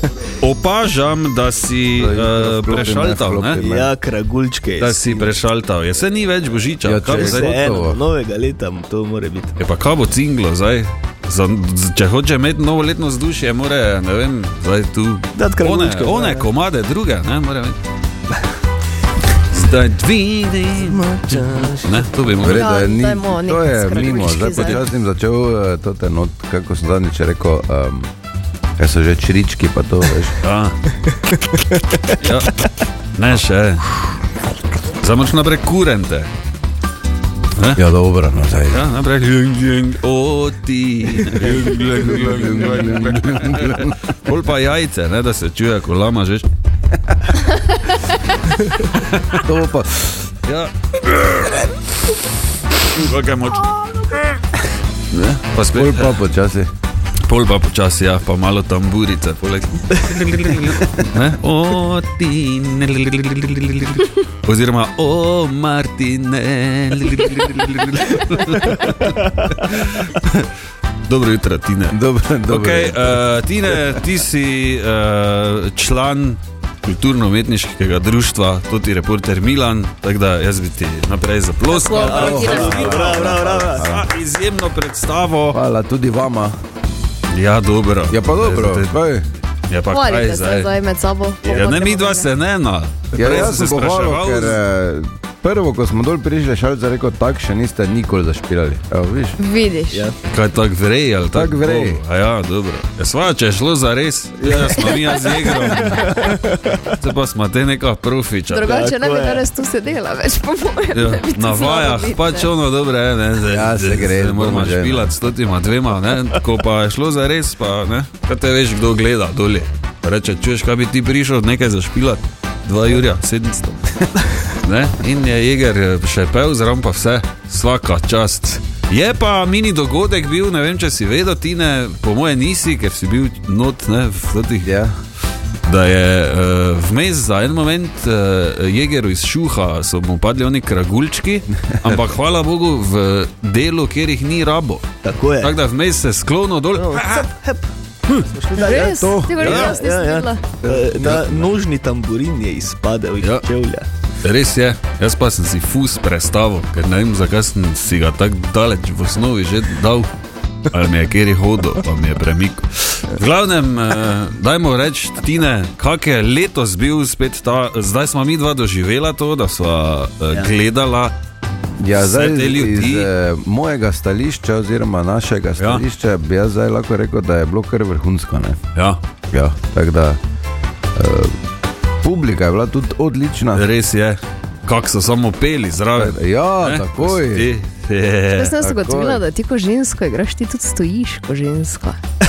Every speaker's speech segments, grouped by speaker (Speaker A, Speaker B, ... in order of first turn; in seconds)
Speaker A: 0.4-3.6, 4.8-7.6, 9.6-17.8, 19.5-22.7, 24.5-24.8, 30.4-30.8, 32.2-32.6, 33.2-34.0, 35.0-36.3, 37.6-37.8, 38.7-46.5, 49.0-49.5, 50.4-51.7, 52.9-54.4, 55.1-56.2, 57.3-70.5, 71.1-72.0, 72.5-85.6, 87.3-89.0, 89.7-90.7, 91.5-94.6, 100.3-106.4, 107.0-108.7, 110.9-123.9, 124.5-134.7, 135.7-144.9, 145.4-147.3, 149.4-149.8, 151.0-151.5, 154.2-160.1, 160.7-171.2, 171.9-173.1, 175.6-175.9, 178.8-179.0, 183.5-188.6
Speaker B: 2.0-3.9, 6.8-8.0, 22.4-28.1, 28.8-30.4, 37.8-38.8, 41.4-43.9, 49.5-50.0, 55.7-56.7, 71.9-74.0, 82.0-84.1, 85.5-86.5, 88.1-89.3, 93.1-99.4, 101.3-102.0, 113.5-115.1, 134.6-134.9, 148.6-149.5, 171.8-178.6, 179.3-180.2, 181.0-181.4, 182.0-183.7, 186.0-187.5, 188.6-189.2
Speaker C: 3.6-5.3, 7.1-9.5, 15.3-16.5, 20.8-22.1, 31.3-32.1, 81.9-83.9, 91.4-91.8, 104.4-106.9, 108.6-109.5, 145.0-145.6, 146.7-153.9
Speaker D: 22.4-24.8, 81.7-83.0, 89.9-92.3, 99.4-100.1, 108.5-112.5, 148.6-150.6, 188.3-192.0